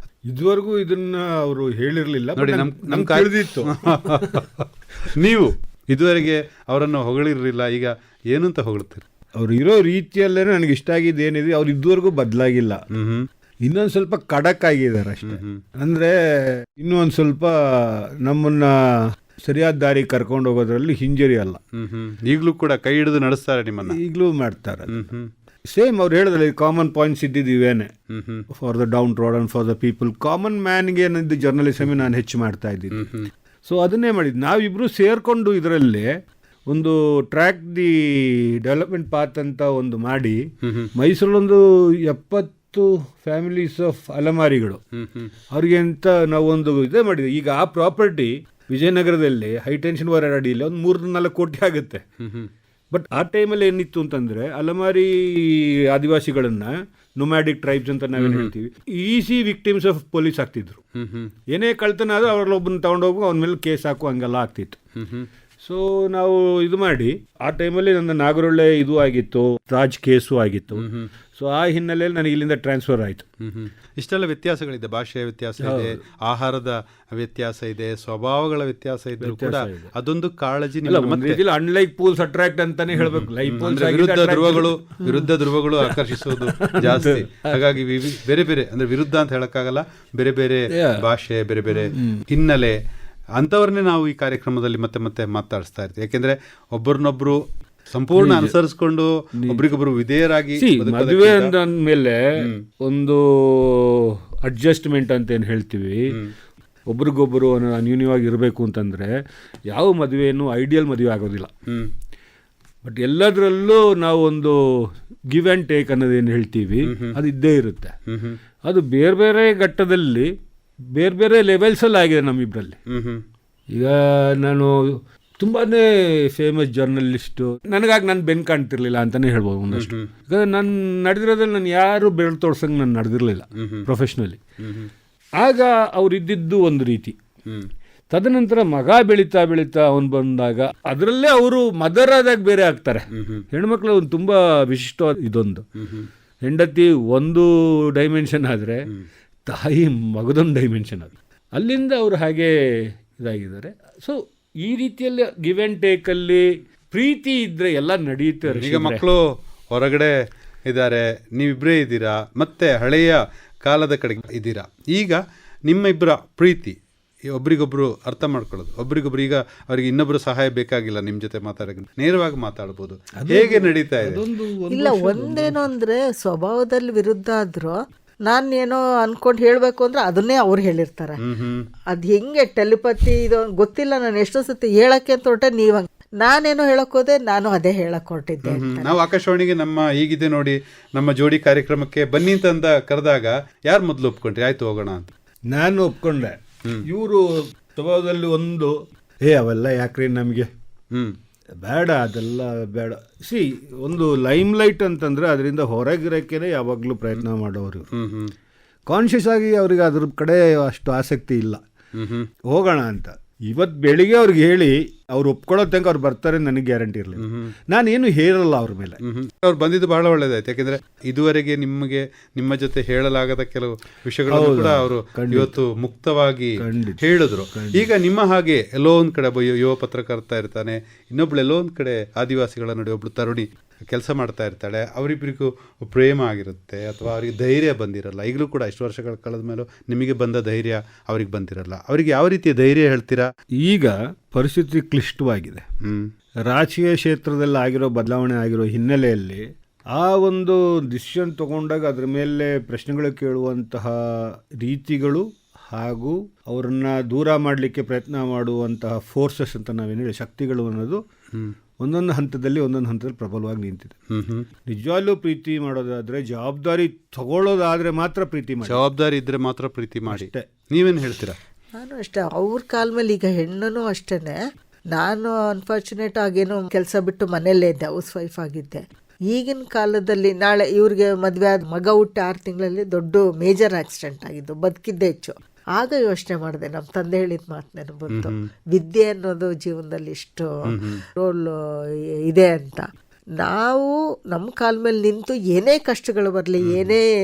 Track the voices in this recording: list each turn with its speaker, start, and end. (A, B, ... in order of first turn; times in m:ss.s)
0:00.3-0:04.5 A
0:02.4-0:09.0 B
0:09.4-0:12.8 A
0:12.9-0:13.3 B
0:13.6-0:21.6 A
0:15.2-0:15.6 B
0:21.8-0:24.0 B
0:23.9-0:25.1 A
0:24.9-0:25.3 B
0:25.7-0:27.9 A
0:28.1-0:28.5 B
0:28.5-0:33.0 A
0:32.9-0:33.3 B
0:33.6-0:40.4 A
0:40.6-0:40.9 B
0:41.0-0:44.8 A
0:45.0-0:45.3 B
0:45.5-0:52.0 A
0:52.2-0:52.5 B
0:52.9-1:00.8 A
0:58.2-0:58.5 B
1:01.0-1:01.3 B
1:01.5-1:04.8 A
1:05.0-1:05.3 B
1:05.6-1:13.2 A
1:10.8-1:11.1 B
1:13.4-1:21.4 B
1:15.6-1:16.0 A
1:19.2-1:19.9 A
1:20.8-1:25.3 A
1:23.0-1:32.8 B
1:25.8-1:27.7 A
1:30.7-1:31.0 A
1:31.9-1:32.2 A
1:33.4-1:41.5 B
1:38.2-1:38.6 A
1:39.4-1:39.8 A
1:40.6-1:42.2 A
1:42.8-1:46.1 A
1:46.9-1:49.1 A
1:49.7-1:51.5 A
1:52.8-1:54.6 A
1:55.3-1:57.9 A
1:56.9-1:57.2 B
1:58.1-1:58.4 B
1:58.6-2:00.3 A
2:00.9-2:02.8 A
2:02.9-2:03.2 B
2:03.7-2:14.4 A
2:09.7-2:10.1 B
2:13.6-2:13.9 B
2:14.6-2:14.9 B
2:15.4-2:17.2 A
2:18.1-2:25.7 A
2:23.1-2:23.4 B
2:25.8-2:26.1 B
2:26.4-2:28.9 A
2:29.5-2:32.5 A
2:33.1-2:39.0 A
2:38.5-2:39.2 B
2:39.7-2:40.1 B
2:40.7-2:46.8 B
2:47.3-2:54.2 B
2:53.2-2:55.7 A
2:54.7-3:01.2 C
3:01.2-3:01.6 B
3:01.9-3:08.9 C
3:08.4-3:15.1 B
3:15.5-3:20.5 A
3:21.6-3:27.9 A
3:27.9-3:28.3 B
3:28.9-3:31.6 A
3:32.0-3:32.3 B
3:32.5-3:39.0 A
3:37.2-3:37.5 B
3:39.0-4:03.3 B
3:44.3-3:45.6 A
3:46.6-3:47.0 A
3:47.5-3:47.9 A
4:03.6-4:05.6 A
4:05.8-4:06.1 B
4:06.5-4:21.0 A
4:21.8-4:24.0 A
4:24.1-4:24.5 B
4:24.7-4:28.8 A
4:28.6-4:31.4 B
4:30.1-4:30.5 A
4:31.8-4:34.4 C
4:34.9-4:50.5 C
4:48.1-4:48.4 B
4:50.7-4:51.0 B
4:51.2-4:51.5 C
4:52.3-4:57.0 C
4:56.6-4:57.0 B